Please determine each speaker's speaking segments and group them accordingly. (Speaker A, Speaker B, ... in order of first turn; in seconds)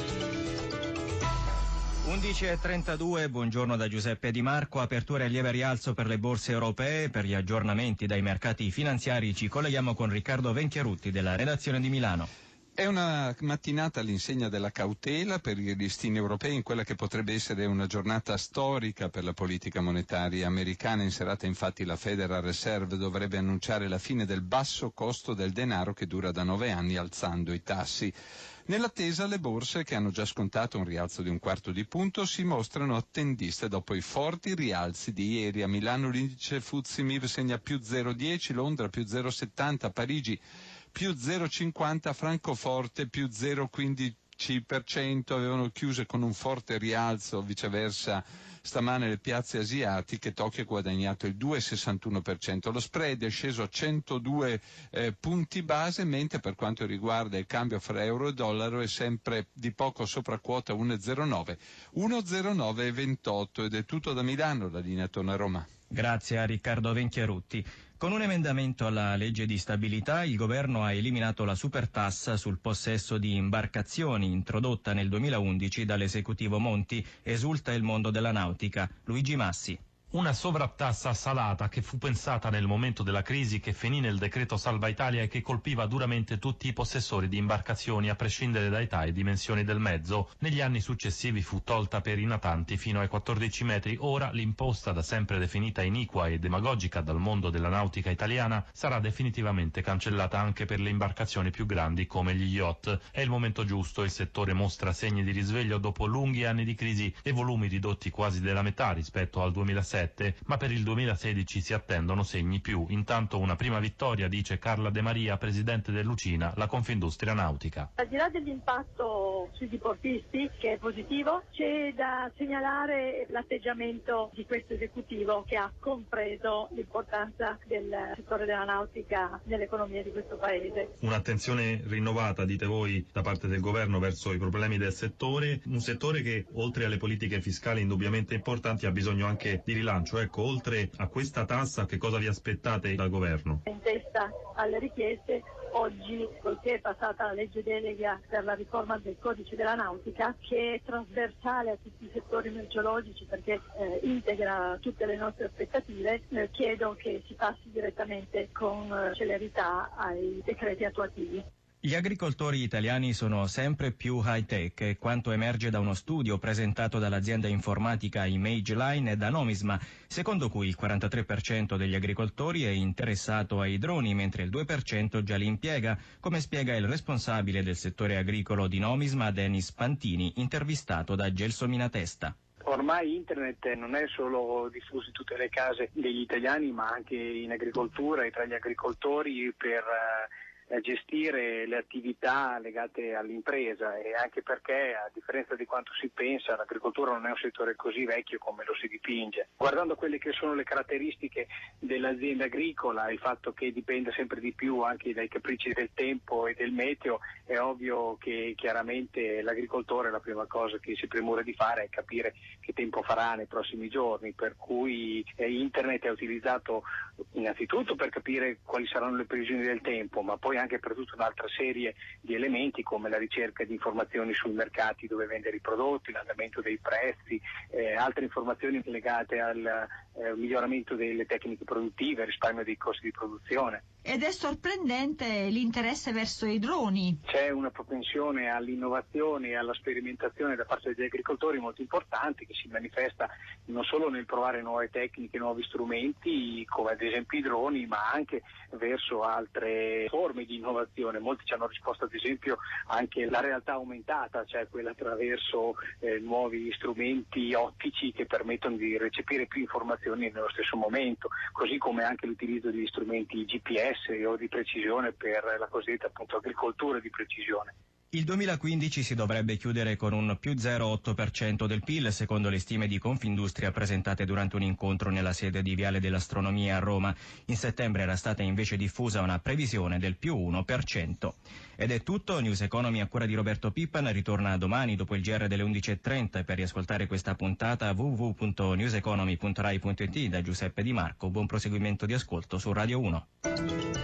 Speaker A: 2.0-12.3, 65.9-79.8, 161.8-182.3, 268.1-293.2
Speaker B: 12.8-28.1, 28.7-40.4, 40.9-65.7
Speaker C: 80.1-117.9, 131.0-143.6
Speaker D: 118.0-130.9, 143.7-161.4
Speaker E: 182.6-233.8, 237.2-267.7
Speaker F: 234.0-237.2